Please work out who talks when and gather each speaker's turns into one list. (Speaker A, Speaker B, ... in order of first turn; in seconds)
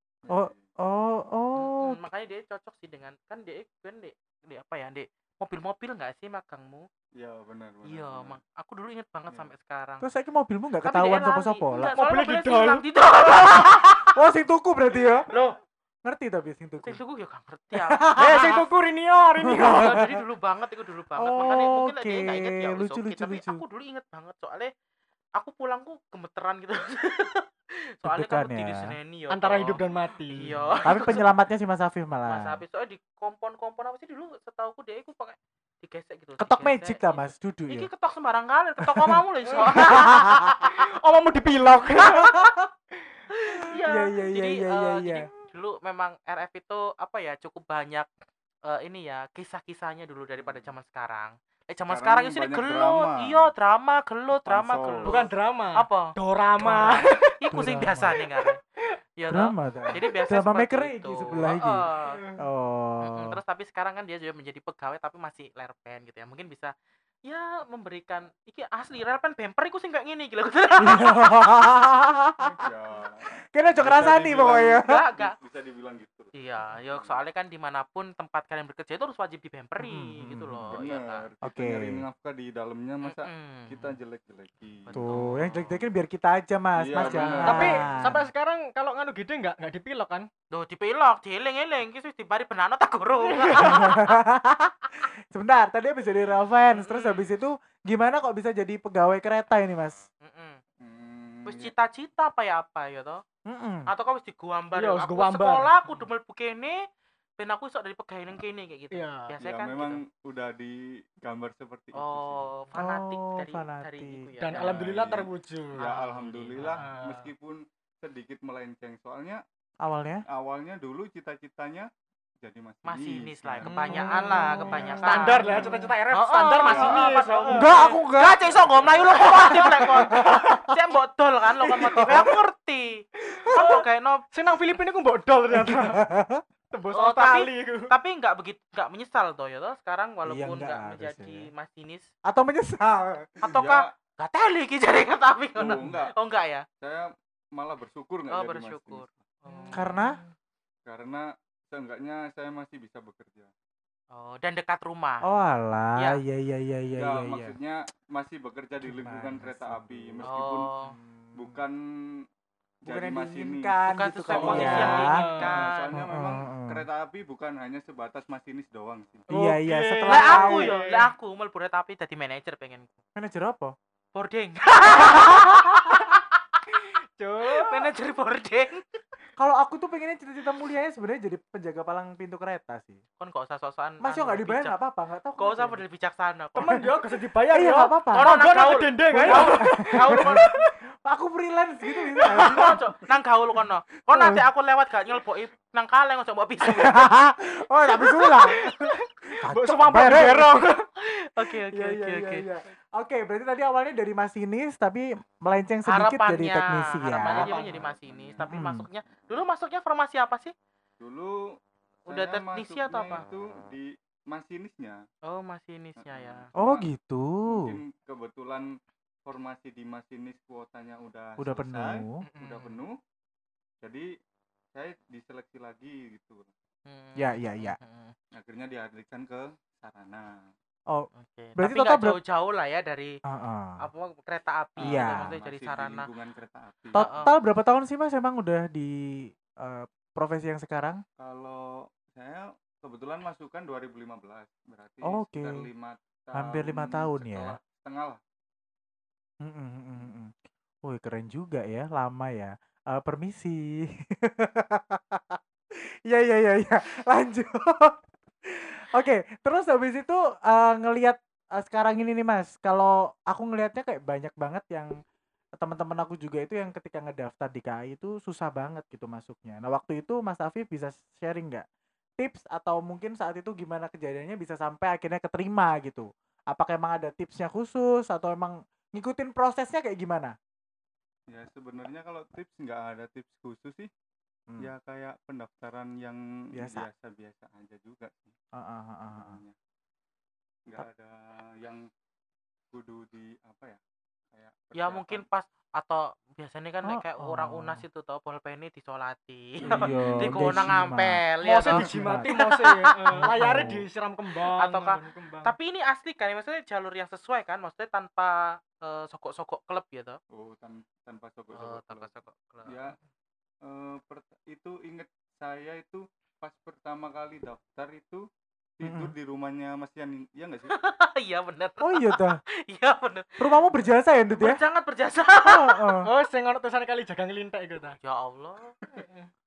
Speaker A: 0.2-0.7, 7.1-8.4, 50.4-50.7, 51.9-53.5, 54.5-55.1, 72.6-76.3, 76.9-77.2, 80.7-85.4, 86.8-87.8, 100.8-101.7, 109.4-112.5, 114.5-119.4, 120.3-121.9, 122.4-123.9, 126.6-127.2, 128.6-129.1, 143.4-143.9, 145.6-146.1, 146.8-149.2, 150.9-153.5, 157.0-160.7, 161.3-161.8, 162.8-163.8, 164.2-169.2, 207.3-208.4, 211.0-211.4, 212.1-215.0, 216.0-216.9, 217.5-218.7, 219.2-223.0, 223.8-224.1, 224.7-226.5, 228.3-230.3, 234.8-237.3, 241.2-248.2, 281.3-283.9, 284.6-288.4, 289.1-289.5, 290.7-291.9, 292.7-293.8, 294.3-295.2, 299.6-300.3, 310.3-312.1, 312.6-313.0, 313.6-318.2, 318.8-320.7
Speaker B: 0.3-2.0, 10.0-11.9, 14.1-15.3, 16.0-17.0, 17.8-18.5, 19.4-20.1, 21.2-23.6, 28.0-28.9, 30.9-32.6, 36.4-37.9, 38.8-39.1, 39.7-40.6, 42.0-42.6, 43.9-45.3, 57.5-58.1, 59.3-61.9, 62.4-63.4, 70.8-72.7, 73.4-74.9, 79.8-80.8, 81.4-82.0, 84.9-88.3, 93.6-100.0, 103.5-103.9, 112.8-114.2, 119.8-120.2, 123.9-125.7, 127.5-128.5, 129.2-130.6, 131.7-132.3, 135.5-136.4, 140.2-141.5, 142.2-143.3, 149.7-150.2, 155.2-157.5, 158.8-160.3, 160.8-161.6, 162.8-165.3, 165.9-166.8, 169.3-170.7, 173.2-173.8, 174.9-175.9, 179.4-183.0, 184.0-185.8, 186.6-186.9, 187.5-188.4, 189.1-192.8, 196.7-200.6, 201.8-207.5, 208.5-208.9, 216.6-217.8, 221.4-222.2, 227.2-227.8, 230.9-232.2, 233.3-233.8, 234.9-235.3, 237.0-241.0, 245.0-245.7, 246.3-247.6, 249.4-250.3, 250.8-255.4, 256.1-258.0, 258.6-264.9, 265.6-271.6, 272.2-280.4, 286.5-286.9, 288.5-289.4, 296.8-297.8, 299.6-302.3, 303.1-303.9, 318.8-319.1, 321.8-322.4, 323.4-324.6, 325.4-326.1
Speaker C: 1.6-6.9, 7.8-10.1, 10.8-14.2, 15.3-15.6, 16.8-18.6, 19.6-24.7, 25.4-27.5, 28.0-31.2, 32.3-40.8, 42.0-42.5, 43.3-48.1, 48.6-58.6, 59.2-62.2, 63.0-66.7, 67.2-71.5, 74.8-75.4, 76.3-81.2, 83.0-84.0, 84.9-85.8, 87.0-87.9, 90.5-94.1, 96.7-97.2, 100.2-100.6, 101.5-103.2, 103.9-106.8, 107.4-110.0, 111.9-114.8, 115.8-116.8, 122.8-134.2, 136.9-142.1, 143.4-146.7, 148.3-150.0, 154.1-155.2, 160.2-160.9, 163.9-165.9, 170.1-173.0, 174.1-176.6, 177.5-178.8, 183.2-184.8, 185.4-186.8, 188.1-190.5, 192.3-197.0, 200.0-202.5, 205.9-210.5, 212.1-213.2, 215.2-216.5, 226.9-228.1, 231.1-233.2, 233.8-236.1, 236.9-237.3, 294.8-303.3, 304.6-310.2, 311.5-312.8, 320.7-323.6, 324.3-326.0, 328.0-328.8
Speaker D: 11.9-12.8, 18.2-20.1, 29.3-31.2, 39.5-42.4, 55.0-57.3, 58.0-58.5, 62.1-62.4, 87.5-90.3, 93.2-93.9, 104.7-105.7, 108.9-109.3, 114.4-116.0, 116.6-117.3, 123.6-127.9, 129.2-130.5, 131.8-132.3, 133.3-136.0, 136.7-137.9, 149.4-150.1, 164.5-165.5, 169.3-171.1, 176.8-177.9, 186.6-190.7, 191.9-192.8, 198.0-200.8, 207.3-207.9, 222.3-222.8, 301.4-305.5, 326.0-328.0, 328.9-329.3